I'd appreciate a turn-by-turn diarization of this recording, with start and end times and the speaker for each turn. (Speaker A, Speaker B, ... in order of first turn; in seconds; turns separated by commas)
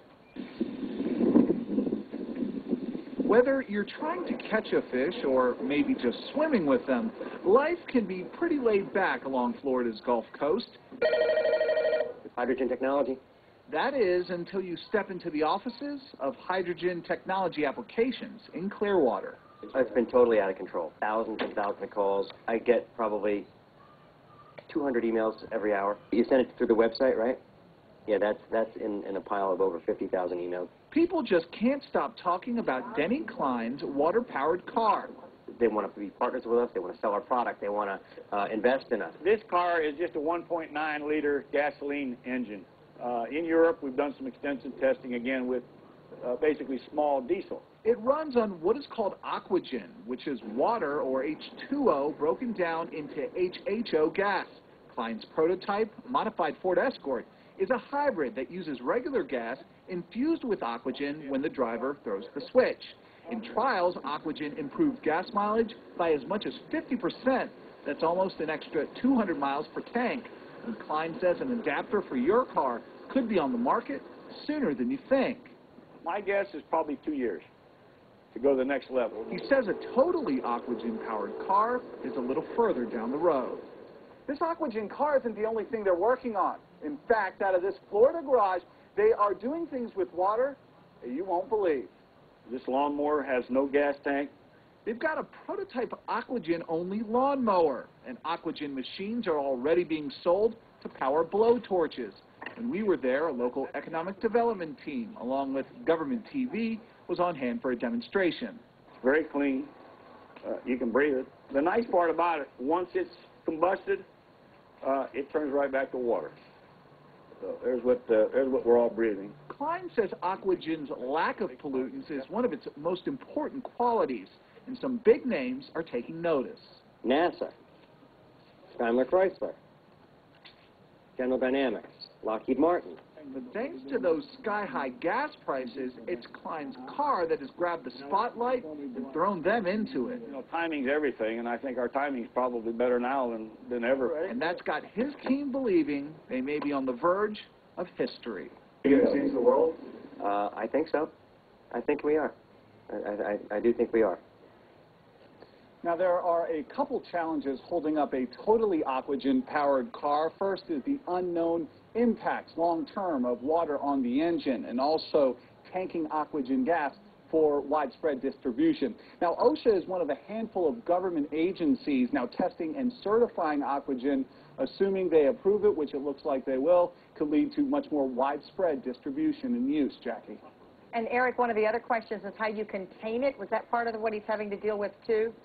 Speaker A: 3.2-10.8, Speaker B: 12.2-13.2, Speaker A: 13.7-19.4, Speaker B: 19.7-23.5, Speaker B: 24.7-27.4, Speaker B: 28.1-30.7, Speaker A: 30.9-35.1, Speaker B: 35.5-39.2, Speaker C: 39.2-45.7, Speaker C: 46.2-47.6, Speaker A: 47.8-75.5, Speaker C: 76.0-77.5, Speaker C: 78.3-79.3, Speaker A: 79.3-83.7, Speaker D: 84.3-91.9, Speaker C: 92.5-94.3, Speaker A: 94.9-108.6, Speaker C: 109.0-109.7, Speaker C: 110.5-114.0, Speaker C: 114.8-116.3, Speaker C: 117.4-119.3, Speaker A: 119.5-126.8, Speaker B: 127.0-127.5, Speaker B: 128.7-129.6, Speaker B: 131.2-133.0, Speaker A: 133.3-140.2, Speaker C: 140.2-144.3, Speaker A: 144.2-148.6, Speaker D: 148.8-149.8, Speaker B: 150.2-151.1, Speaker B: 151.7-152.3, Speaker B: 152.9-154.2, Speaker D: 155.8-180.4, Speaker E: 180.9-185.4